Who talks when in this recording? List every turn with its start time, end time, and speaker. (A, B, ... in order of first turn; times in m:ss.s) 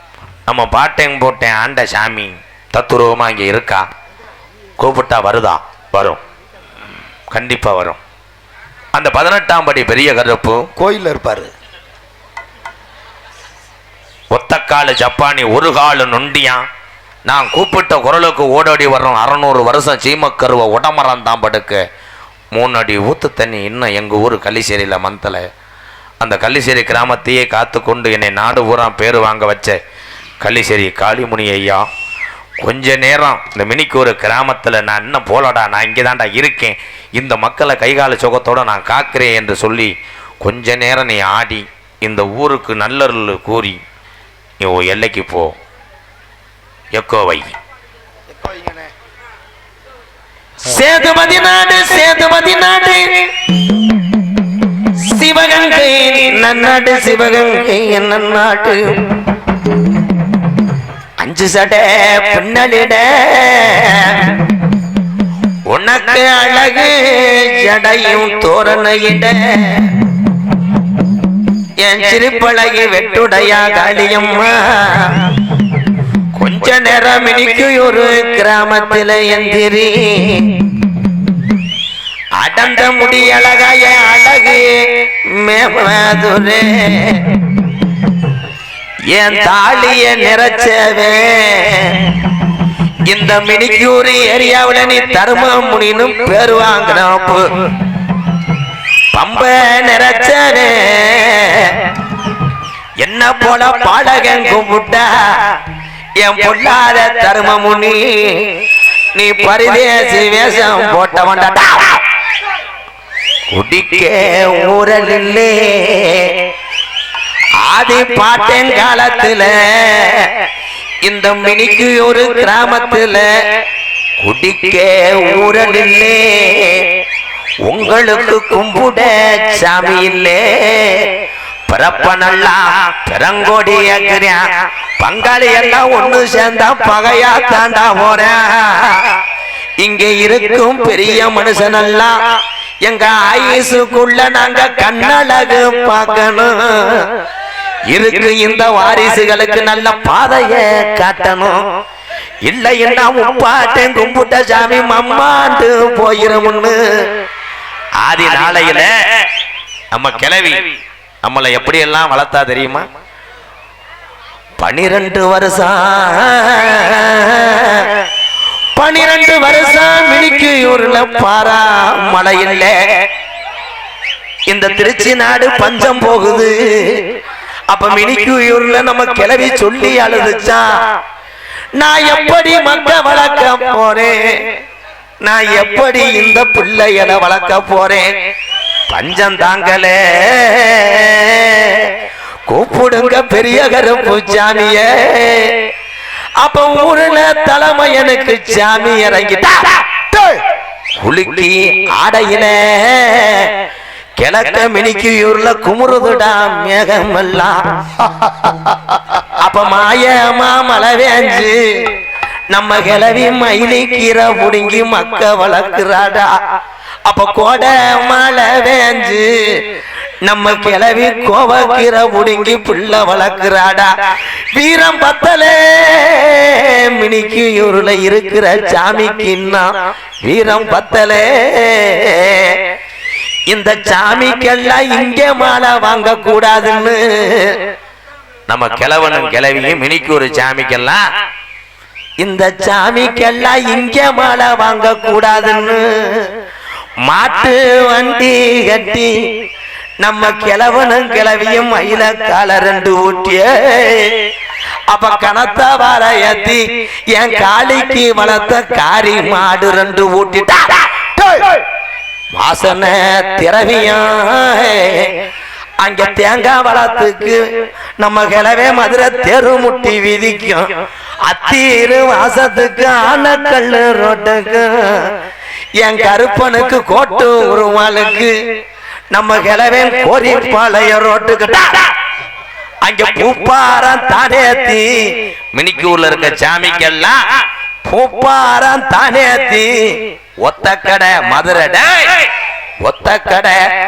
0:00.5-0:03.9 A
0:04.8-0:06.2 A
0:07.3-0:08.0 A
0:08.9-0:10.7 A
0:10.8-0:11.5 B
0:14.3-0:16.6 A
0:17.2-0:21.8 A
0:22.5-0:25.4 A
0:26.2-0:29.8 A
0:30.4-0:31.8 A
0:32.6-0:39.9 A
0:40.4-0:43.8 A
0:44.6-0:45.6 A
0:46.9-0:47.6 A
0:48.3-0:48.9 B
0:50.6-0:53.3 A
0:55.0-0:58.8 A
1:01.2-1:04.3 A
1:05.7-1:09.9 A
1:11.8-1:15.3 A
1:16.4-1:20.6 A
1:22.4-1:27.4 A
1:29.1-1:32.1 A
1:33.1-1:37.5 A
1:39.1-1:41.8 A
1:43.0-1:45.6 A
1:46.2-1:48.6 A
1:49.1-1:52.0 A
1:53.5-1:56.5 A
1:57.6-2:00.3 A
2:01.0-2:03.3 A
2:04.2-2:06.9 A
2:07.6-2:19.2 A
2:19.8-2:22.3 A
2:22.8-2:27.1 A
2:27.9-2:31.6 A
2:32.4-2:36.8 A
2:38.0-2:38.9 A
2:39.9-2:40.7 A
2:41.2-2:42.9 A
2:44.6-2:47.9 A
2:48.8-2:52.8 A
2:54.5-2:57.1 A
2:57.7-3:00.6 A
3:01.8-3:04.4 A
3:05.2-3:08.1 A
3:08.9-3:11.9 A
3:12.5-3:15.7 A
3:16.4-3:19.7 A
3:20.1-3:20.4 B
3:21.0-3:23.5 A
3:24.2-3:27.6 A
3:28.0-3:28.7 B
3:29.4-3:31.9 A
3:32.5-3:36.3 A
3:37.0-3:39.6 A
3:40.2-3:43.9 A
3:44.5-3:49.7 A
3:50.2-3:52.6 A
3:53.5-3:57.6 A
3:58.5-4:01.0 A
4:02.2-4:06.3 A
4:07.0-4:09.1 A
4:10.0-4:14.3 A
4:14.9-4:16.6 A
4:17.1-4:20.8 A
4:21.2-4:21.5 B
4:22.3-4:25.2 A
4:25.8-4:27.4 A
4:28.0-4:30.7 A
4:31.2-4:35.1 A
4:35.8-4:38.3 A
4:39.1-4:41.9 A
4:42.8-4:47.2 A
4:47.8-4:52.3 A
4:52.8-4:53.6 A